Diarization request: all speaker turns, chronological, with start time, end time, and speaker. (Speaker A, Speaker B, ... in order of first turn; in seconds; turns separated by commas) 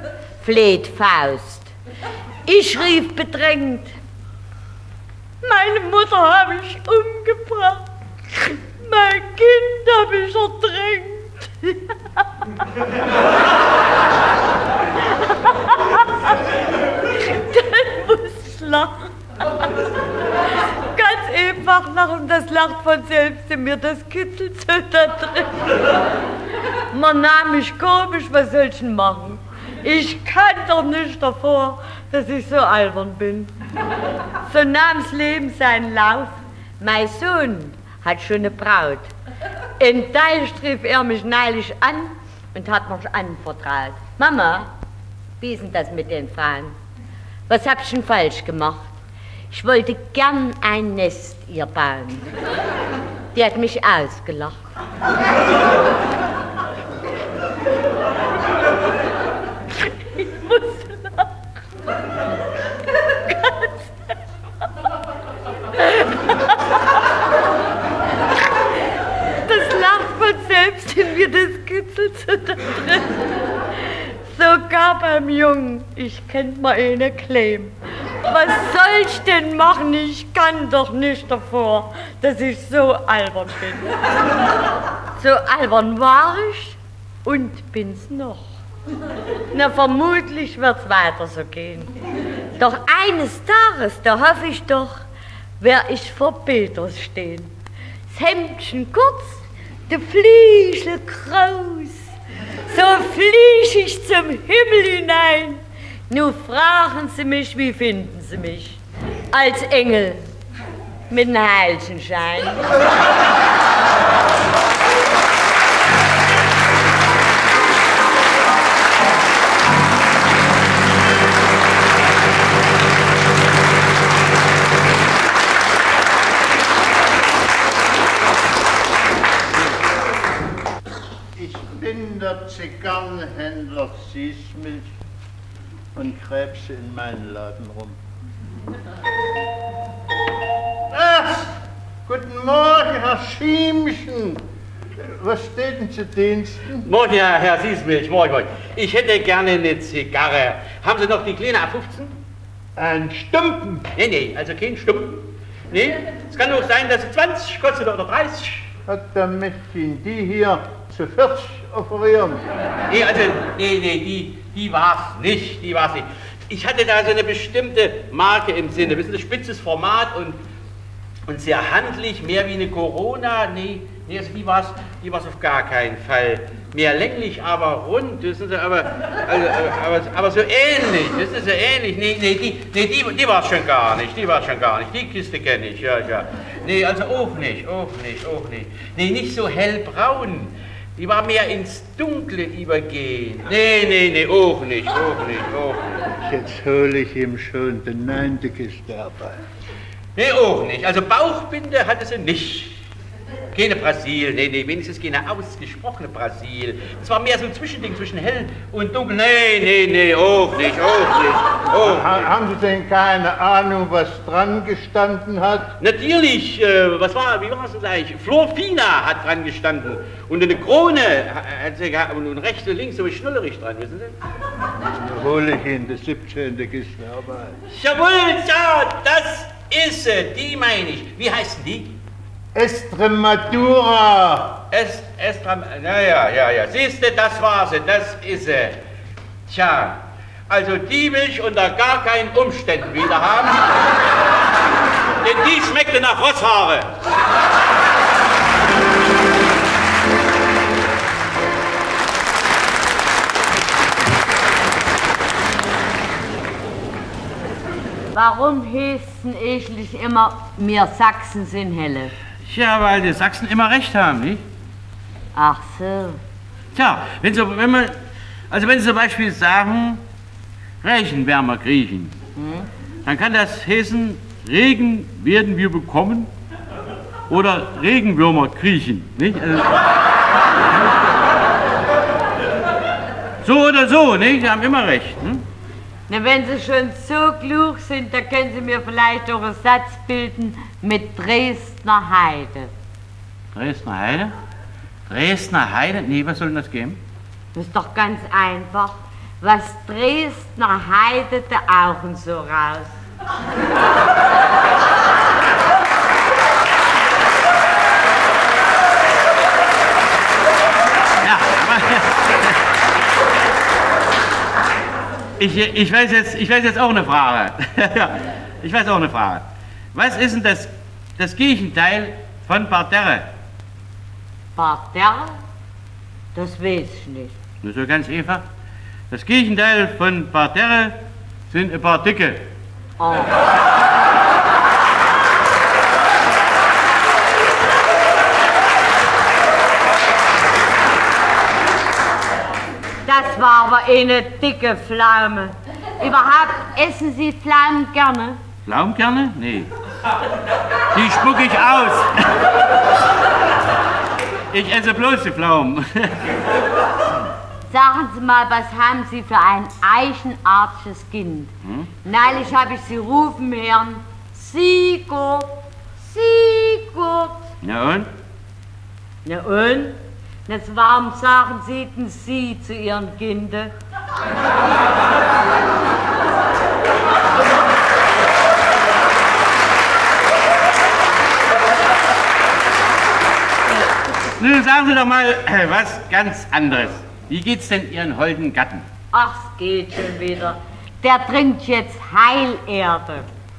Speaker A: 0.4-1.7, Speaker A: 2.5-3.9, Speaker A: 5.4-12.2, Speaker A: 15.0-16.4, Speaker A: 17.0-19.6, Speaker A: 20.7-25.7, Speaker A: 26.9-33.5, Speaker A: 34.4-39.1, Speaker A: 39.8-44.7, Speaker A: 45.4-46.8, Speaker A: 47.5-48.9, Speaker A: 49.5-52.3, Speaker A: 53.3-54.6, Speaker A: 59.9-61.3, Speaker A: 63.1-63.7, Speaker A: 65.8-66.5, Speaker A: 69.4-73.2, Speaker A: 73.8-83.9, Speaker A: 85.2-88.6, Speaker A: 89.5-91.9, Speaker A: 92.6-95.0, Speaker A: 95.6-97.5, Speaker A: 98.1-102.1, Speaker A: 102.7-110.2, Speaker A: 111.1-112.6, Speaker B: 131.3-134.9, Speaker B: 135.9-138.0, Speaker B: 140.9-141.5, Speaker B: 142.1-144.4, Speaker B: 145.0-146.8, Speaker C: 146.8-152.2, Speaker B: 152.8-153.8, Speaker C: 153.9-158.7, Speaker B: 158.8-162.4, Speaker C: 162.9-170.4, Speaker C: 171.3-196.0, Speaker B: 196.2-199.4, Speaker C: 200.1-202.8, Speaker C: 203.5-212.3, Speaker B: 211.7-215.7, Speaker C: 215.8-224.1, Speaker B: 225.0-227.6, Speaker C: 227.7-232.0, Speaker B: 232.5-234.6, Speaker C: 234.7-238.8, Speaker C: 239.5-243.7, Speaker C: 245.2-246.9, Speaker A: 258.1-262.1, Speaker C: 262.4-264.4, Speaker A: 265.3-266.2, Speaker C: 266.7-268.0, Speaker C: 268.5-270.0, Speaker C: 270.8-272.1, Speaker A: 272.4-272.7, Speaker C: 273.0-276.3, Speaker C: 277.3-279.8, Speaker C: 283.4-285.4, Speaker A: 286.1-292.7, Speaker C: 293.5-294.3, Speaker C: 295.1-297.0, Speaker A: 297.5-302.9, Speaker C: 311.2-312.6, Speaker C: 315.4-323.3, Speaker A: 324.6-325.4, Speaker A: 326.3-327.3, Speaker C: 327.6-328.4, Speaker C: 329.1-331.0, Speaker C: 331.5-332.5, Speaker A: 333.0-333.4, Speaker A: 343.1-348.4, Speaker C: 348.6-349.7, Speaker C: 350.9-352.3, Speaker C: 354.5-356.2, Speaker A: 357.7-361.5, Speaker A: 362.0-367.5, Speaker C: 367.6-368.1, Speaker A: 369.2-373.7, Speaker C: 384.4-388.9, Speaker A: 389.1-393.3